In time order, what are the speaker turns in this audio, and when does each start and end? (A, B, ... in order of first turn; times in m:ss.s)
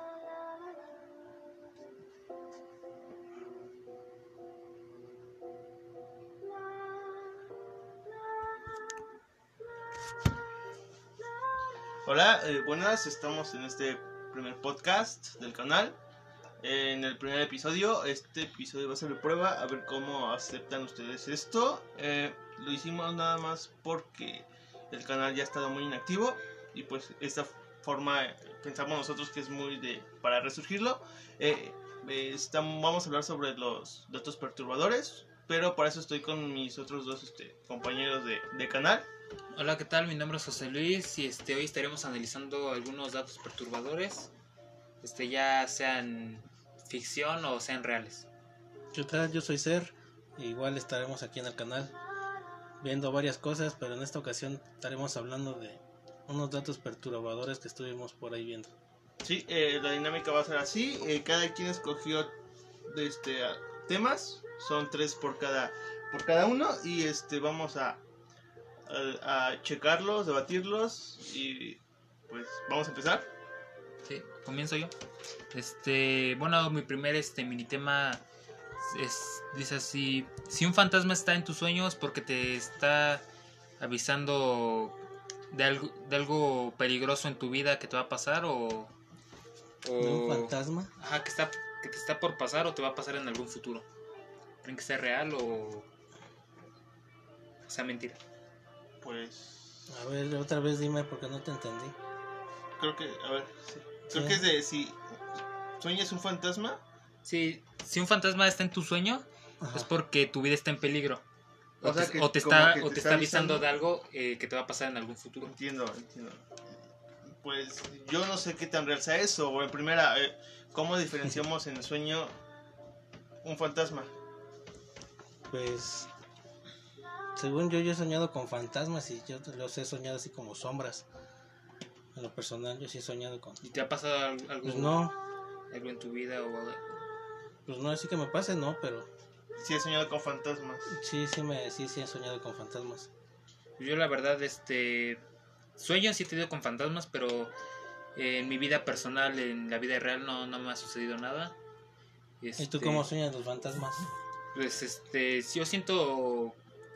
0:12.1-0:16.0 A
0:16.6-0:39.1 A
0:39.6-0:44.3 B
0:45.0-0:48.3 B
0:48.9-0:51.9 C
0:52.8-0:58.7 C
0:59.2-1:02.3 A
1:02.9-1:08.0 A
1:08.9-1:13.3 A
1:14.0-1:14.9 B
1:15.5-1:18.2 B
1:18.8-1:23.2 B
1:23.8-1:25.0 B
1:25.5-1:28.9 B
1:29.8-1:33.8 B
1:30.0-1:30.9 C
1:34.6-1:35.9 B
1:37.7-1:38.2 B
1:39.0-1:39.9 A
1:39.9-1:42.0 C
1:42.8-1:45.2 A
1:44.1-1:44.5 C
1:45.8-1:46.8 A
1:47.2-1:51.2 B
1:49.6-1:49.9 C
1:51.8-1:55.6 B
1:51.8-1:53.6 A
1:55.4-1:56.6 A
1:57.3-2:02.4 A
2:03.4-2:04.1 A
2:05.5-2:06.1 C
2:07.4-2:11.1 C
2:12.2-2:13.6 C
2:13.6-2:15.1 B
2:14.6-2:15.2 C
2:15.7-2:17.0 B
2:17.7-2:19.1 C
2:19.6-2:21.0 A
2:20.9-2:23.1 C
2:23.8-2:25.2 B
2:25.8-2:27.5 B
2:28.2-2:31.6 B
2:32.4-2:33.0 B
2:32.6-2:34.1 C
2:34.5-2:36.6 B